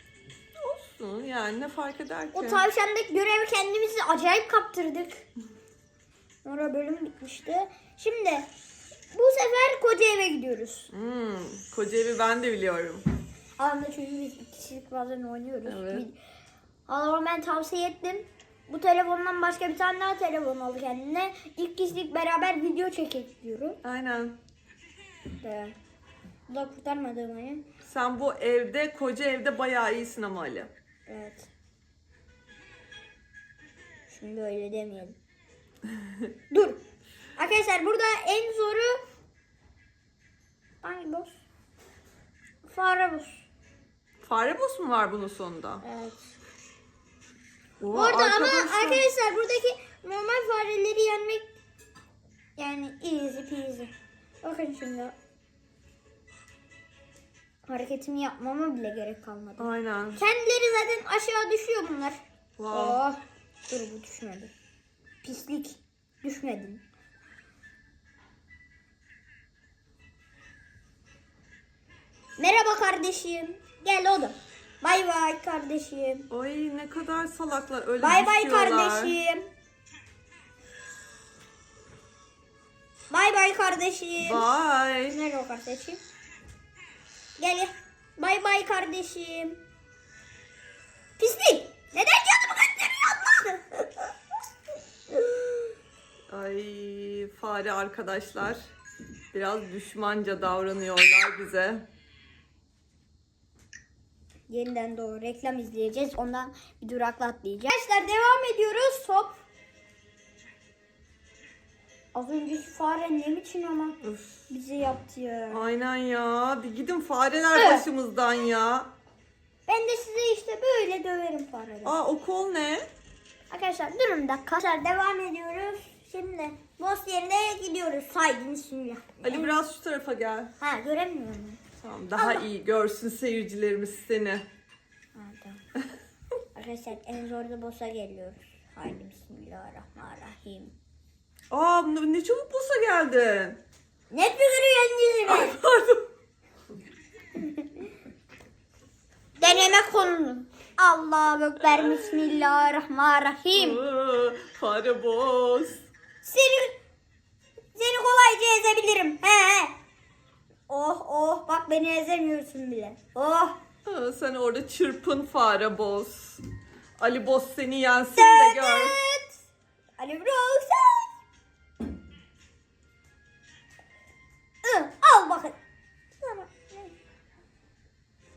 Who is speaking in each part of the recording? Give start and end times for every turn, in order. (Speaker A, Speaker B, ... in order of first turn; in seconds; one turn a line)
Speaker A: 0.6-2.6
Speaker B: 2.3-5.2
Speaker B: 6.4-8.5
Speaker B: 9.1-10.9
Speaker A: 10.9-13.1
Speaker B: 13.6-16.1
Speaker A: 15.7-16.1
Speaker B: 16.9-23.8
Speaker A: 23.8-24.4
Speaker B: 25.4-25.7
Speaker B: 26.5-27.6
Speaker A: 27.8-30.7
Speaker B: 31.1-31.5
Speaker B: 34.1-35.2
Speaker B: 36.5-36.8
Speaker B: 37.4-39.0
Speaker B: 40.8-41.4
Speaker B: 42.6-43.4
Speaker A: 44.2-45.8
Speaker B: 45.8-46.3
Speaker A: 47.8-49.0
Speaker B: 47.9-51.5
Speaker B: 52.6-55.1
Speaker B: 57.6-64.5
Speaker A: 59.6-60.2
Speaker A: 62.6-63.0
Speaker B: 65.2-66.8
Speaker B: 72.4-76.3
Speaker A: 76.3-79.1
Speaker B: 78.0-79.5
Speaker B: 83.1-84.5
Speaker A: 84.2-85.2
Speaker B: 85.1-86.0
Speaker B: 87.4-89.6
Speaker B: 91.2-94.1
Speaker B: 95.1-95.5
Speaker A: 96.3-98.6
Speaker A: 99.3-101.9
Speaker B: 104.5-109.4
Speaker B: 112.1-115.7
Speaker A: 114.0-114.4
Speaker A: 115.5-118.9
Speaker B: 117.5-117.8
Speaker B: 119.7-122.0
Speaker A: 121.8-122.8
Speaker B: 123.5-129.6
Speaker A: 129.2-130.5
Speaker B: 130.6-131.6
Speaker A: 131.8-134.4
Speaker B: 132.2-132.5
Speaker B: 135.1-135.6
Speaker B: 136.5-140.7
Speaker A: 141.5-143.6
Speaker B: 144.1-145.6
Speaker A: 145.3-146.0
Speaker B: 147.4-147.7
Speaker B: 149.4-153.8
Speaker A: 153.5-155.8
Speaker B: 156.2-156.8
Speaker B: 157.7-159.7
Speaker B: 160.7-163.6
Speaker A: 163.8-166.4
Speaker A: 167.0-168.9
Speaker B: 168.2-169.4
Speaker B: 170.0-171.2
Speaker B: 174.6-175.6
Speaker B: 176.2-176.9